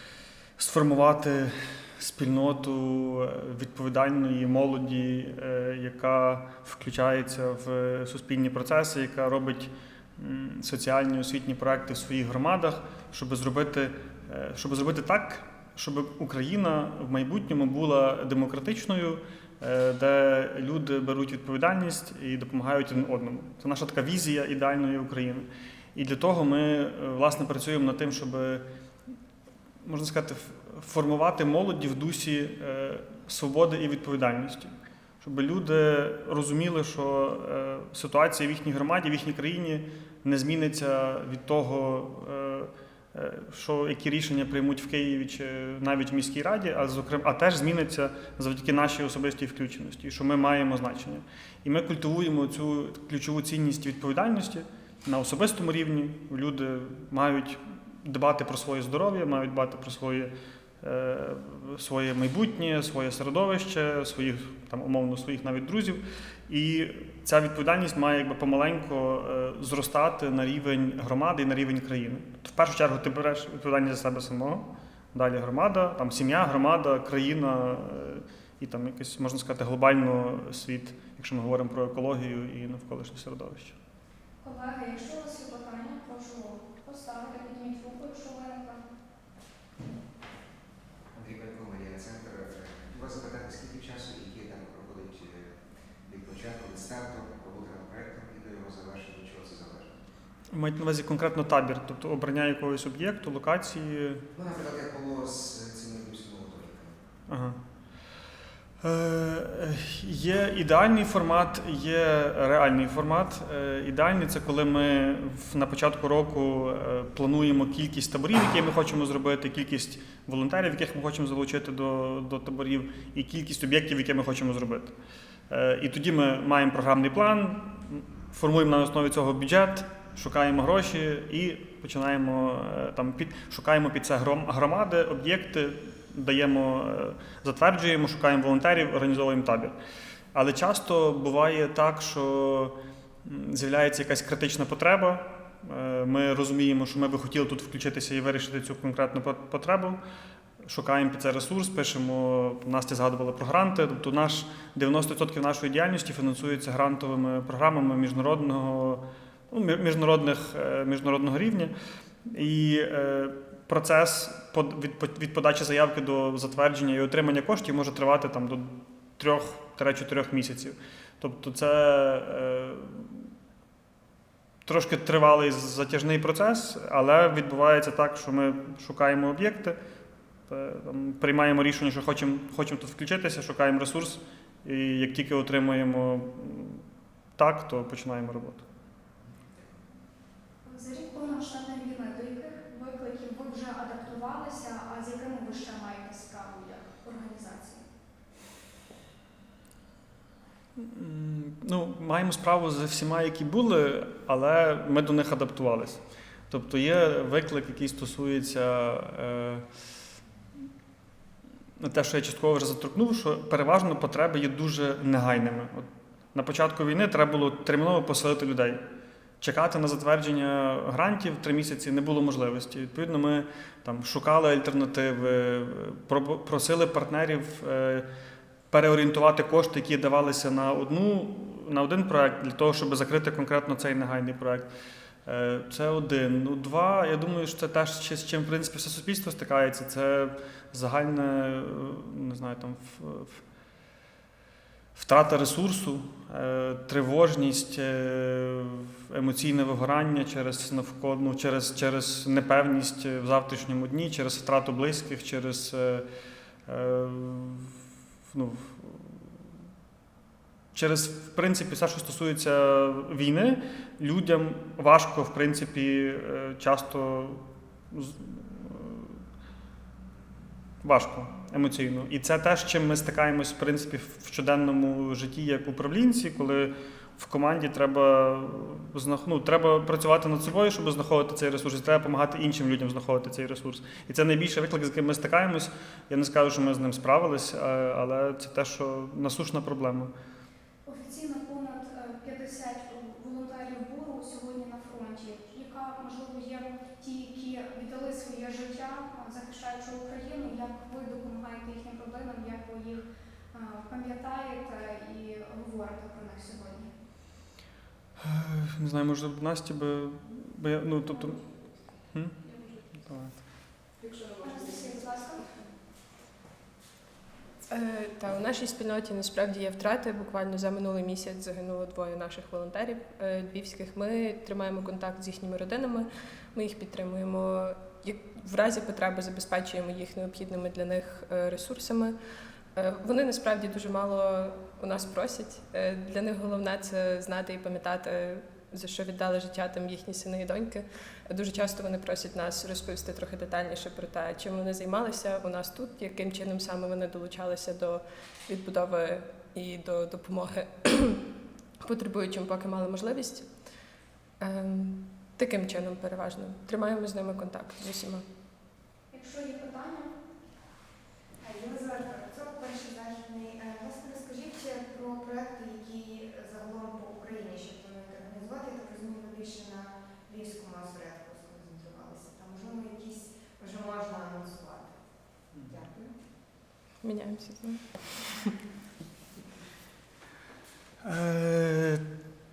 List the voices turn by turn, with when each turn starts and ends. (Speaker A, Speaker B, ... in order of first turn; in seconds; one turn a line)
Speaker A: 0.6-28.6
Speaker A: 29.8-83.8
Speaker B: 84.4-88.8
Speaker C: 91.1-99.9
Speaker A: 100.5-104.2
Speaker C: 104.3-107.0
Speaker A: 107.3-107.6
Speaker A: 108.8-124.9
Speaker A: 125.5-139.8
Speaker A: 140.3-150.0
Speaker A: 150.6-161.7
Speaker A: 162.3-173.3
Speaker A: 174.7-179.8
Speaker A: 180.5-186.8
Speaker A: 187.4-188.7
Speaker C: 189.4-189.7
Speaker B: 190.7-197.8
Speaker A: 200.8-209.7
Speaker A: 211.8-218.8
Speaker A: 219.4-228.1
Speaker A: 228.7-234.7
Speaker A: 235.3-243.4
Speaker A: 244.9-256.1
Speaker A: 256.7-257.7
Speaker A: 258.3-259.2
Speaker A: 260.7-269.2
Speaker A: 270.8-290.1
Speaker B: 290.9-306.9
Speaker A: 308.2-311.6
Speaker A: 312.1-313.4
Speaker B: 314.2-315.6
Speaker D: 317.7-332.1
Speaker D: 332.8-351.2
Speaker D: 351.8-353.5
Speaker D: 354.4-358.2
Speaker B: 359.1-360.1
Speaker E: 361.4-375.0
Speaker E: 375.5-376.1
Speaker D: 377.0-377.9
Speaker A: 381.0-382.1